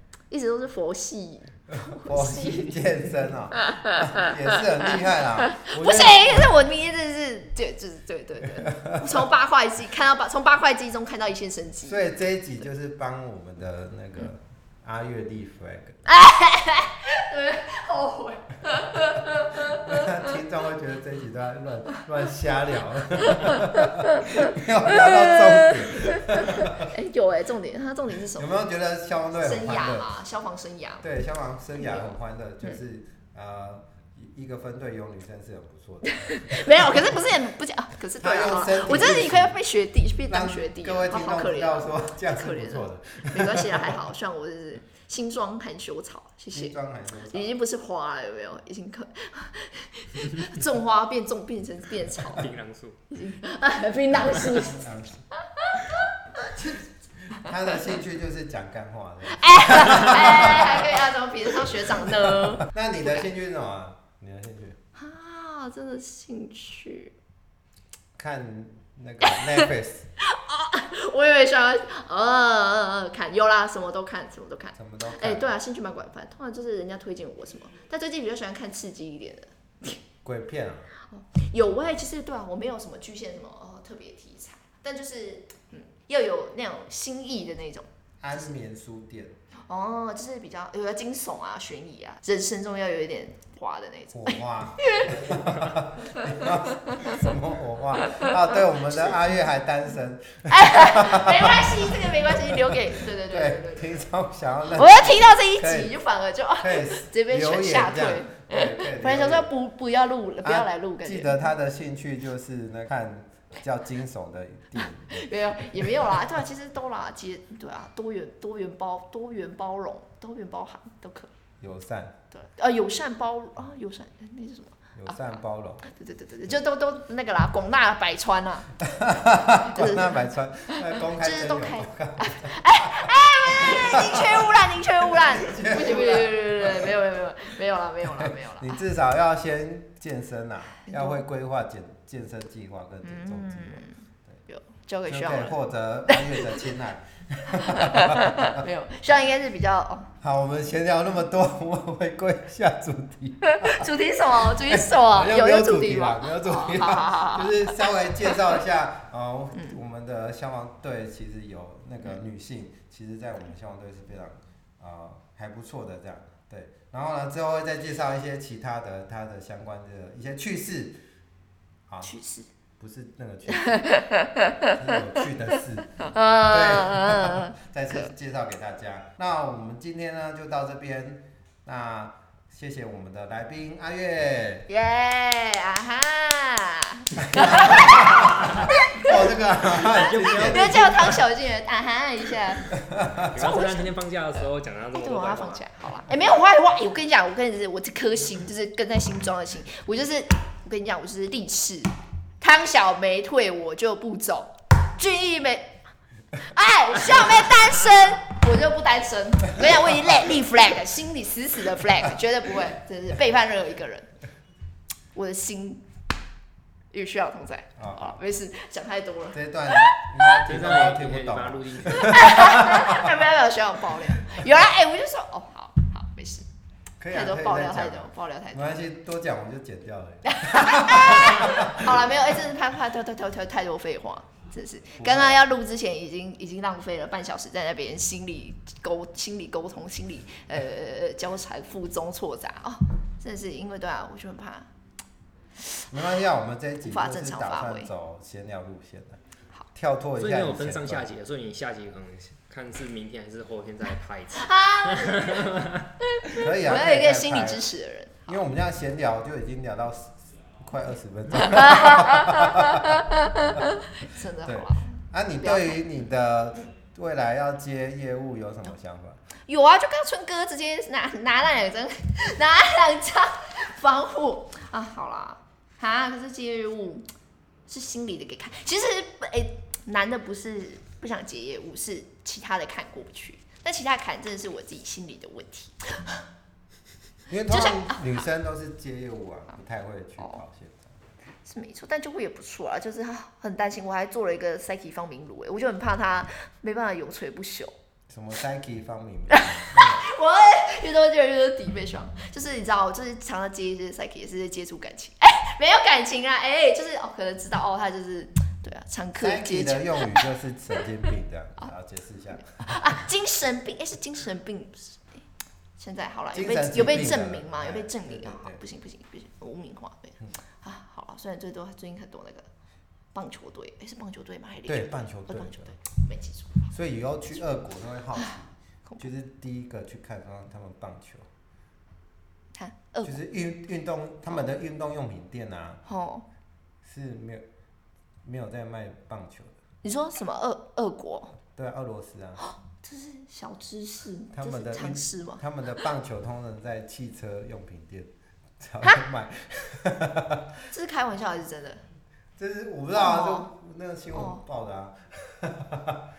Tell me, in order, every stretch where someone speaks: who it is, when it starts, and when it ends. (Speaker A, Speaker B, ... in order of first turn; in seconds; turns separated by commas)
Speaker A: 0.3-2.9, Speaker B: 1.7-6.6, Speaker A: 3.6-12.0, Speaker B: 8.6-9.2, Speaker B: 11.8-16.0, Speaker A: 16.1-20.1, Speaker B: 19.6-26.9, Speaker A: 23.3-24.1, Speaker A: 24.9-28.6, Speaker B: 28.3-30.1, Speaker A: 29.4-31.0, Speaker B: 31.0-37.1, Speaker A: 31.8-32.1, Speaker A: 36.1-52.5, Speaker B: 38.2-39.6, Speaker B: 40.3-44.0, Speaker B: 46.5-47.6, Speaker C: 52.2-53.0, Speaker A: 53.1-54.9, Speaker B: 54.3-55.2, Speaker A: 55.4-56.5, Speaker B: 56.4-61.0, Speaker A: 59.3-63.2, Speaker B: 62.6-64.8, Speaker A: 65.0-67.1, Speaker B: 68.2-70.1, Speaker A: 69.2-69.7, Speaker A: 70.2-80.0, Speaker B: 74.8-75.5, Speaker B: 80.2-80.9, Speaker A: 81.0-87.9, Speaker B: 88.2-89.4, Speaker A: 89.7-97.3, Speaker B: 94.1-105.9, Speaker A: 98.0-99.1, Speaker A: 100.5-103.9, Speaker A: 104.7-111.5, Speaker B: 106.6-109.5, Speaker B: 110.4-116.2, Speaker A: 115.1-121.3, Speaker B: 121.6-122.2, Speaker A: 122.3-128.8, Speaker B: 124.9-125.9, Speaker B: 128.8-136.9, Speaker A: 129.6-138.8, Speaker B: 138.0-144.4, Speaker A: 140.8-141.2, Speaker A: 143.0-145.6, Speaker B: 145.1-148.7, Speaker A: 146.1-146.5, Speaker A: 147.5-150.1, Speaker B: 150.2-171.0, Speaker A: 153.4-158.5, Speaker B: 171.9-172.1, Speaker A: 172.0-172.5, Speaker B: 172.8-173.8, Speaker A: 173.5-174.9, Speaker B: 174.6-184.7, Speaker A: 176.0-178.1, Speaker A: 184.7-189.2, Speaker B: 187.3-191.2, Speaker C: 188.4-188.6, Speaker C: 189.8-191.2, Speaker A: 190.3-192.7, Speaker B: 192.8-193.3, Speaker C: 193.2-195.6, Speaker A: 193.3-205.8, Speaker A: 206.3-214.1, Speaker A: 215.1-215.8, Speaker A: 216.9-220.1, Speaker B: 217.8-218.2, Speaker B: 219.3-223.1, Speaker C: 220.4-222.5, Speaker A: 221.8-226.4, Speaker B: 227.0-232.1, Speaker A: 227.1-228.9, Speaker A: 230.2-244.7, Speaker B: 234.9-235.4, Speaker B: 245.9-249.2, Speaker A: 246.8-247.9, Speaker B: 249.7-251.1, Speaker C: 250.2-255.8, Speaker A: 254.3-258.4, Speaker B: 256.4-257.7, Speaker B: 258.3-263.0, Speaker A: 261.5-265.8, Speaker B: 264.4-269.2, Speaker A: 269.5-277.1, Speaker A: 277.7-286.2, Speaker B: 287.3-290.9, Speaker A: 287.5-287.9, Speaker A: 291.4-297.7, Speaker B: 298.1-300.1, Speaker A: 299.3-310.2, Speaker B: 309.1-312.8, Speaker A: 312.4-315.2, Speaker A: 315.8-322.5, Speaker B: 316.3-318.6, Speaker A: 323.1-326.7, Speaker B: 324.7-325.8, Speaker B: 326.7-331.2, Speaker A: 327.3-327.6, Speaker A: 328.1-329.1, Speaker A: 332.6-333.2, Speaker B: 333.0-335.8, Speaker A: 335.9-336.3, Speaker B: 336.8-337.4, Speaker B: 338.2-339.5, Speaker A: 339.8-341.4, Speaker B: 341.6-342.4, Speaker A: 342.4-345.4, Speaker B: 344.3-350.4, Speaker A: 350.7-351.8, Speaker B: 352.4-356.0, Speaker A: 353.0-353.5, Speaker A: 354.1-354.4